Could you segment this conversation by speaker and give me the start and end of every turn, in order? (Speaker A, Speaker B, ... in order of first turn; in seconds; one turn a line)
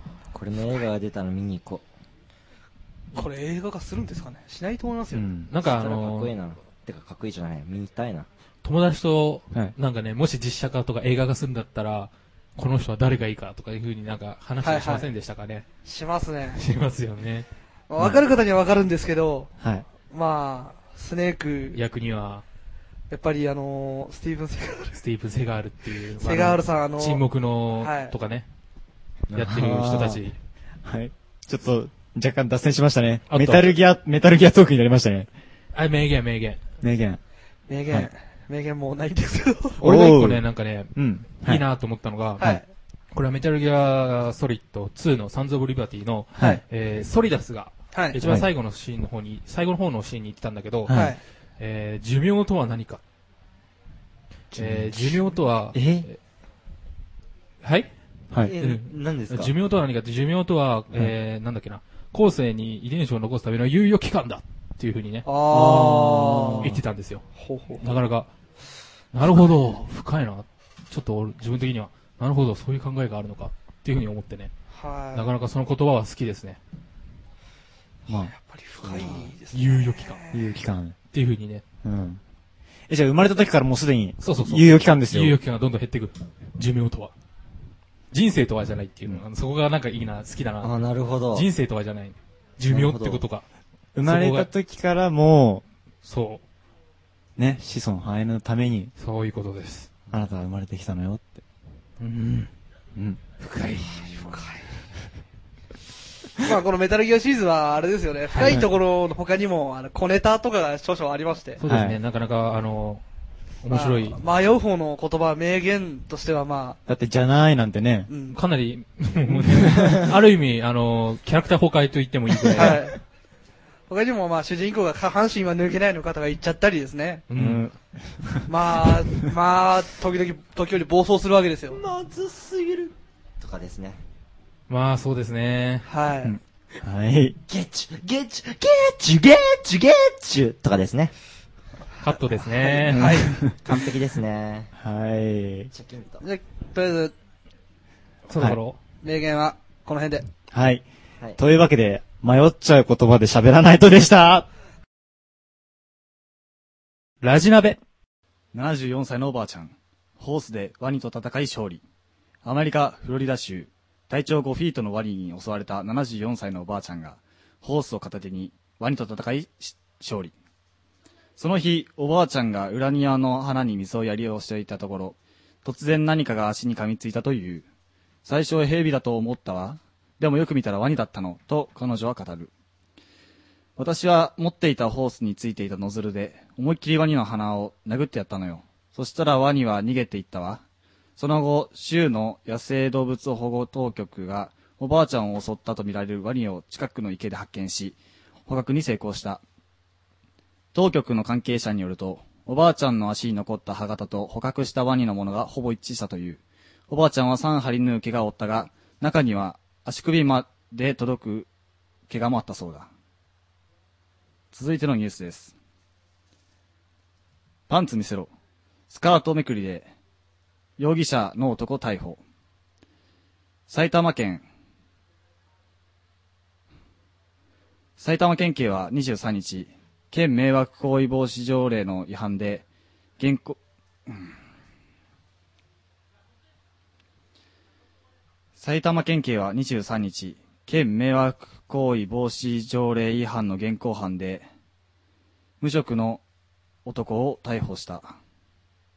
Speaker A: 0.3-1.8
Speaker B: 3.1-5.3
Speaker C: 5.1-5.5
Speaker D: 5.5-6.3
Speaker A: 5.6-8.3
Speaker D: 8.6-15.7
Speaker B: 14.6-15.1
Speaker B: 15.8-16.6
Speaker D: 16.6-17.5
Speaker B: 17.9-19.5
Speaker C: 19.6-19.9
Speaker B: 20.0-21.8
Speaker D: 21.7-22.4
Speaker B: 23.1-25.0
Speaker D: 24.9-28.5
Speaker B: 26.2-27.2
Speaker B: 27.8-28.1
Speaker A: 29.3-30.1
Speaker D: 29.3-30.4
Speaker C: 29.5-30.2
Speaker C: 30.8-35.3
Speaker D: 33.3-33.7
Speaker D: 35.7-36.6
Speaker C: 36.8-37.2
Speaker B: 37.7-39.8
Speaker D: 39.8-42.6
Speaker C: 39.8-40.4
Speaker C: 40.9-41.6
Speaker D: 43.1-51.0
Speaker C: 46.4-46.6
Speaker B: 47.9-48.2
Speaker C: 50.9-51.1
Speaker B: 50.9-51.2
Speaker D: 51.6-53.0
Speaker C: 54.5-56.1
Speaker D: 54.5-56.2
Speaker D: 57.6-57.9
Speaker C: 58.3-58.5
Speaker A: 58.4-59.5
Speaker D: 58.5-67.2
Speaker B: 65.2-66.7
Speaker C: 65.5-66.7
Speaker B: 67.3-67.9
Speaker D: 67.8-68.3
Speaker D: 69.1-74.5
Speaker B: 74.7-75.3
Speaker D: 75.1-76.6
Speaker C: 78.1-79.2
Speaker B: 78.3-80.5
Speaker D: 79.5-80.2
Speaker C: 80.3-81.0
Speaker D: 81.1-81.6
Speaker C: 81.8-82.2
Speaker C: 82.9-85.4
Speaker D: 84.2-87.1
Speaker D: 88.1-90.7
Speaker A: 90.6-91.5
Speaker D: 91.3-93.4
Speaker A: 92.7-93.2
Speaker C: 93.9-95.6
Speaker D: 94.0-94.5
Speaker D: 96.0-96.4
Speaker C: 97.4-98.9
Speaker D: 99.0-99.9
Speaker C: 100.1-101.4
Speaker D: 102.0-102.5
Speaker C: 102.9-103.2
Speaker D: 103.4-104.0
Speaker A: 103.8-104.4
Speaker B: 104.2-104.6
Speaker B: 106.4-111.6
Speaker D: 108.3-108.6
Speaker D: 111.6-113.0
Speaker C: 111.6-112.0
Speaker D: 113.6-114.2
Speaker B: 113.7-116.8
Speaker C: 116.9-118.1
Speaker B: 118.1-118.4
Speaker D: 118.3-122.8
Speaker B: 119.7-119.9
Speaker B: 122.5-123.0
Speaker B: 123.9-127.2
Speaker D: 127.3-127.6
Speaker C: 127.3-129.3
Speaker B: 128.5-131.8
Speaker A: 131.7-134.0
Speaker D: 134.7-135.8
Speaker B: 135.8-136.3
Speaker C: 136.2-137.4
Speaker A: 137.5-141.1
Speaker D: 142.0-143.3
Speaker B: 142.9-143.4
Speaker C: 142.9-143.5
Speaker A: 143.6-144.7
Speaker C: 144.8-145.7
Speaker A: 145.7-146.2
Speaker B: 146.2-147.1
Speaker D: 148.3-148.8
Speaker B: 149.0-150.2
Speaker C: 150.5-150.8
Speaker C: 151.4-154.5
Speaker D: 157.2-157.8
Speaker E: 158.5-161.8
Speaker E: 162.4-170.3
Speaker E: 171.4-177.6
Speaker E: 178.2-182.5
Speaker E: 183.8-190.6
Speaker E: 191.2-199.4
Speaker E: 200.7-211.5
Speaker E: 212.1-212.9
Speaker E: 214.5-215.5
Speaker E: 217.7-218.3
Speaker E: 218.9-219.9
Speaker E: 220.8-222.2
Speaker E: 223.7-224.4
Speaker E: 228.0-232.6
Speaker E: 233.2-234.3
Speaker E: 238.6-244.4
Speaker E: 245.6-246.2
Speaker E: 246.8-248.1